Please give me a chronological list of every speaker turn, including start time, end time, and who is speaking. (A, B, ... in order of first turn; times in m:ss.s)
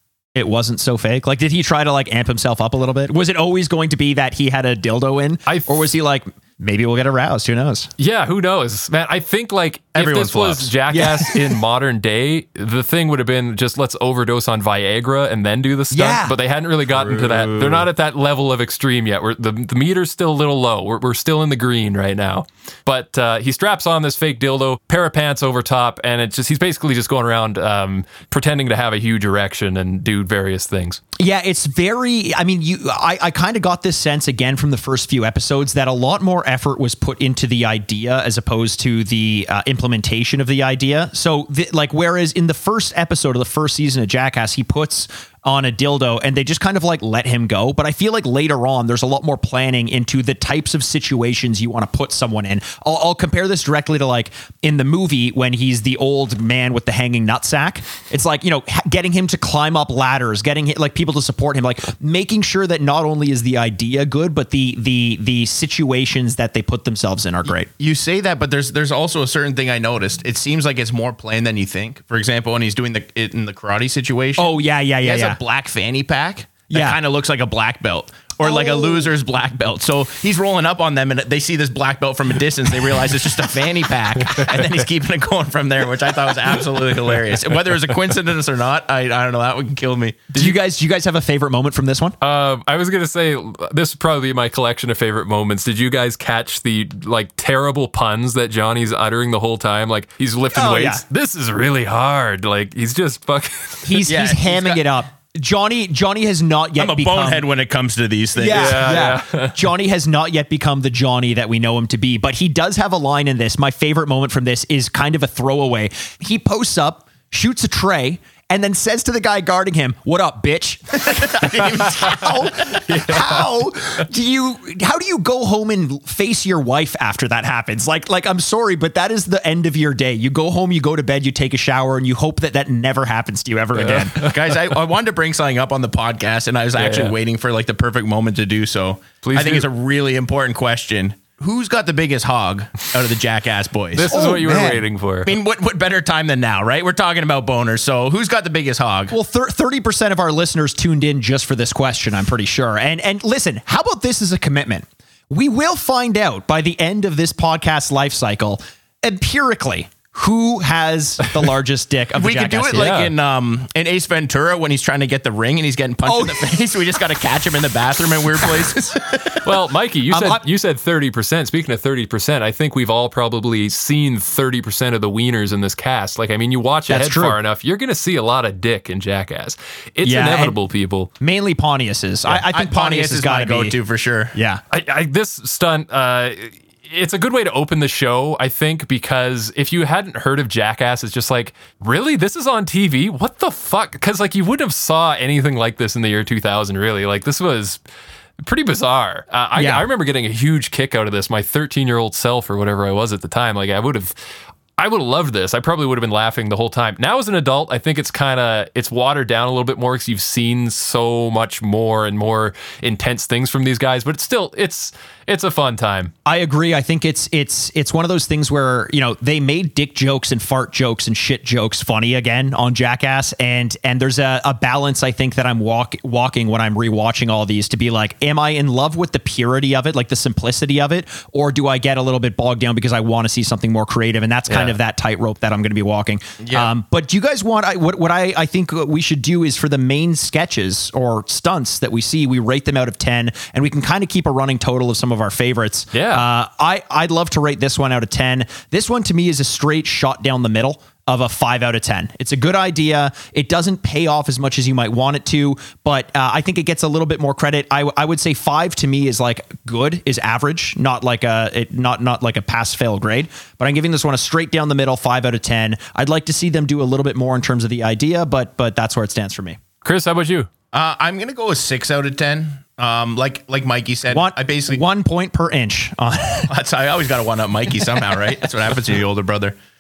0:00.4-0:07.9 A
0:05.5-0:05.7 B
0:08.0-0:31.0 B
0:10.0-0:10.7 C
0:10.9-0:11.6 A
0:15.9-0:16.3 A
0:16.9-0:17.8 C
0:31.2-1:07.7 A
1:07.4-1:14.5 C
1:14.4-1:15.4 A
1:15.0-1:30.2 C
1:16.7-1:17.0 A
1:18.4-1:19.0 A
1:24.3-1:24.7 B
1:30.3-1:32.2 A
1:32.2-1:44.1 B
1:40.5-1:41.0 A
1:43.8-1:47.4 A
1:44.0-1:44.9 C
1:46.8-1:49.0 C
1:48.4-2:14.2 A
1:48.5-1:49.6 B
2:01.1-2:02.6 C
2:02.9-2:03.5 B
2:13.8-2:14.4 B
2:14.1-2:24.2 C
2:16.8-2:17.1 B
2:19.2-2:19.6 B
2:23.9-2:25.3 B
2:24.1-2:24.8 A
2:25.2-2:29.1 C
2:29.1-2:42.9 A
2:42.1-2:49.4 C
2:42.7-2:43.1 B
2:46.0-2:46.5 A
2:49.4-3:01.1 B
2:50.1-2:50.4 A
2:56.9-2:57.4 A
3:00.0-3:00.6 A
3:01.2-3:03.7 A
3:02.2-3:04.4 C
3:04.3-3:04.6 A
3:04.7-3:17.8 B
3:18.4-3:24.1 B
3:19.6-3:19.8 A
3:24.8-3:36.1 B
3:36.2-4:29.6 A
3:54.5-3:54.8 B
3:56.4-3:56.7 C
4:05.9-4:06.2 B
4:29.8-4:30.5 B
4:30.7-4:34.8 C
4:34.1-4:36.5 A
4:36.5-4:39.6 C